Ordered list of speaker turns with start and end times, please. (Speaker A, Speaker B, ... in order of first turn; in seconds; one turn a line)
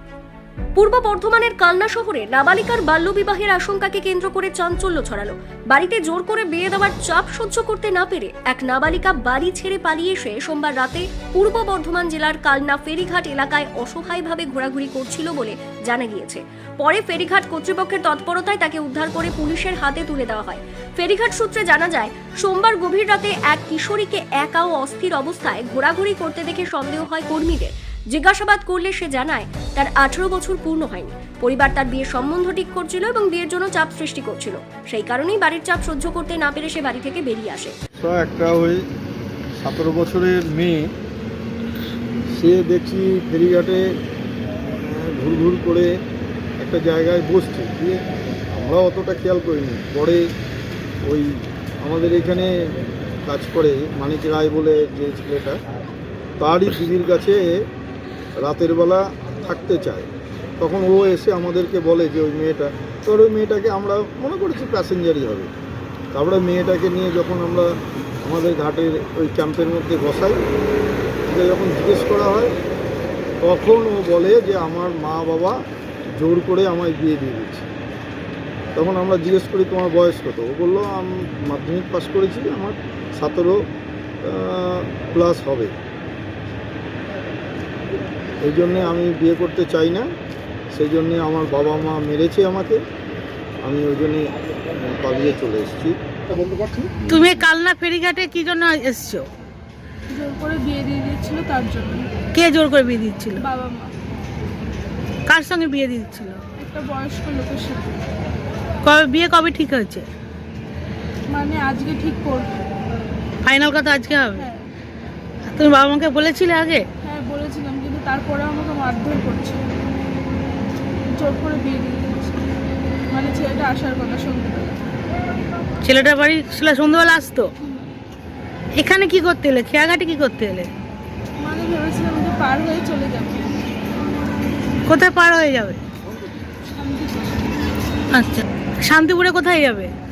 Speaker A: 0.8-37.8
Speaker B: 38.0-38.8
Speaker B: 39.6-40.9
Speaker B: 42.3-43.9
Speaker B: 44.8-45.9
Speaker B: 46.6-48.0
Speaker B: 48.5-50.3
Speaker B: 51.0-52.5
Speaker B: 53.3-55.6
Speaker B: 56.4-57.6
Speaker B: 58.4-60.1
Speaker B: 60.6-65.5
Speaker B: 66.1-67.7
Speaker B: 68.2-70.4
Speaker B: 71.3-72.5
Speaker B: 73.4-75.6
Speaker B: 76.2-77.7
Speaker B: 78.8-83.6
Speaker B: 84.2-85.7
Speaker B: 88.4-90.1
Speaker B: 90.7-92.8
Speaker B: 93.6-97.1
Speaker C: 97.1-99.3
Speaker D: 100.1-102.1
Speaker C: 102.3-103.4
Speaker D: 103.4-103.9
Speaker C: 105.3-106.4
Speaker D: 106.6-108.1
Speaker C: 108.8-110.1
Speaker D: 111.3-112.7
Speaker C: 113.4-114.5
Speaker D: 114.4-114.7
Speaker C: 115.5-116.8
Speaker D: 117.0-119.7
Speaker D: 121.1-122.5
Speaker D: 123.1-124.8
Speaker C: 125.8-127.5
Speaker C: 128.8-130.7
Speaker D: 131.4-133.5
Speaker C: 134.9-135.8
Speaker D: 136.7-137.8
Speaker C: 138.1-139.9